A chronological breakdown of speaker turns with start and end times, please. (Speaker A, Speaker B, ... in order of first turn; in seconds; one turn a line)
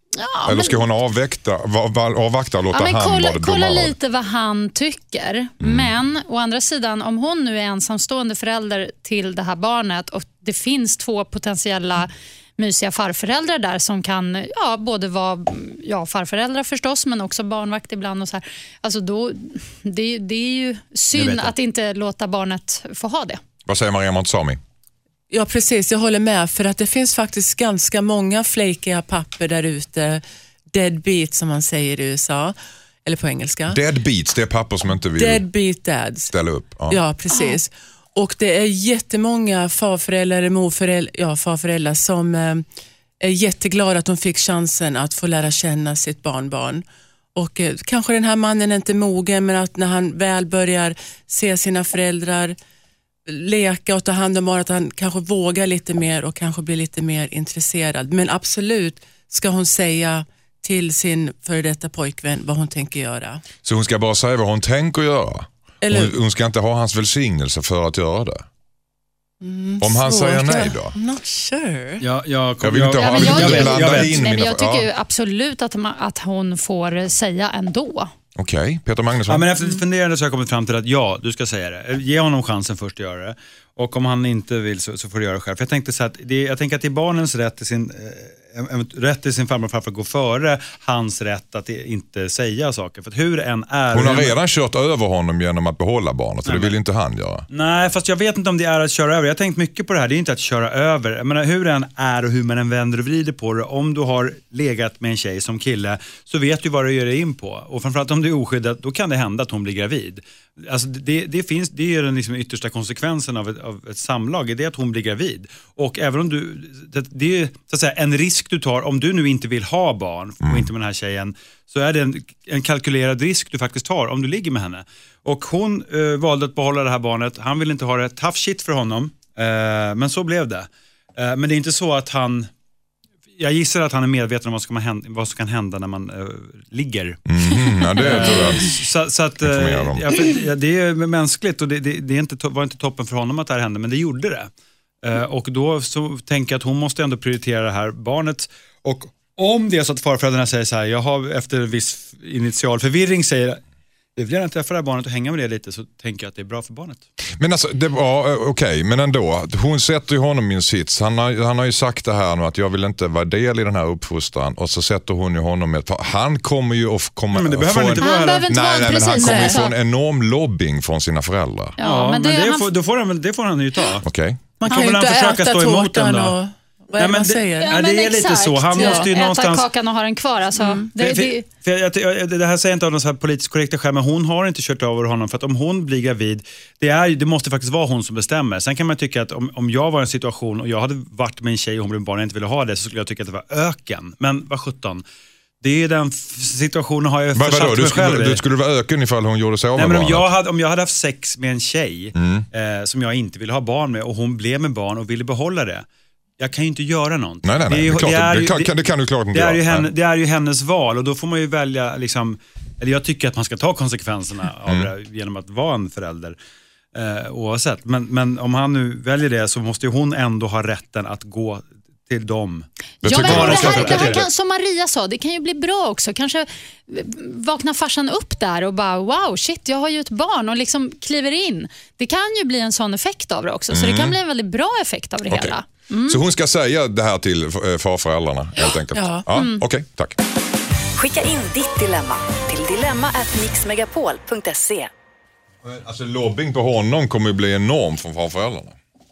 Speaker A: 0.2-0.8
Speaker B: 0.5-4.0
Speaker A: 2.7-23.4
Speaker B: 5.6-5.9
Speaker C: 21.1-21.5
Speaker B: 23.7-24.6
Speaker D: 25.3-33.8
Speaker B: 33.7-35.5
Speaker D: 35.2-36.3
Speaker B: 36.3-37.0
Speaker D: 36.9-42.6
Speaker A: 37.3-37.6
Speaker D: 43.2-46.8
Speaker D: 47.4-52.6
Speaker D: 53.3-63.4
Speaker B: 63.6-68.5
Speaker D: 65.8-66.2
Speaker D: 69.4-72.0
Speaker B: 69.8-71.0
Speaker C: 72.0-74.2
Speaker B: 72.6-74.9
Speaker A: 73.0-78.1
Speaker B: 78.3-79.5
Speaker C: 79.3-94.4
Speaker B: 93.9-97.5
Speaker C: 96.5-96.8
Speaker C: 97.5-132.5
Speaker B: 120.4-120.7
Speaker C: 133.4-137.2
Speaker B: 137.3-138.8
Speaker C: 138.0-144.5
Speaker B: 139.4-140.1
Speaker C: 145.0-153.6
Speaker C: 154.2-157.0
Speaker B: 157.4-171.8
Speaker C: 167.3-168.6
Speaker A: 168.0-169.7
Speaker A: 171.8-172.7
Speaker C: 171.8-174.0
Speaker B: 174.0-174.4
Speaker D: 174.6-177.8
Speaker C: 174.7-176.4
Speaker C: 176.9-179.7
Speaker A: 177.6-181.5
Speaker D: 178.7-179.1
Speaker D: 180.6-180.9
Speaker C: 181.0-195.0
Speaker C: 195.6-198.4
Speaker B: 197.3-200.3
Speaker C: 199.8-205.8
Speaker B: 202.2-202.5
Speaker C: 206.4-208.7
Speaker B: 207.4-209.9
Speaker C: 209.3-216.3
Speaker C: 216.9-224.3
Speaker B: 223.0-224.3
Speaker A: 223.1-236.2
Speaker B: 233.7-234.2
Speaker B: 235.3-240.2
Speaker D: 238.9-239.3
Speaker A: 239.3-239.6
Speaker E: 241.0-244.9
Speaker B: 245.6-248.8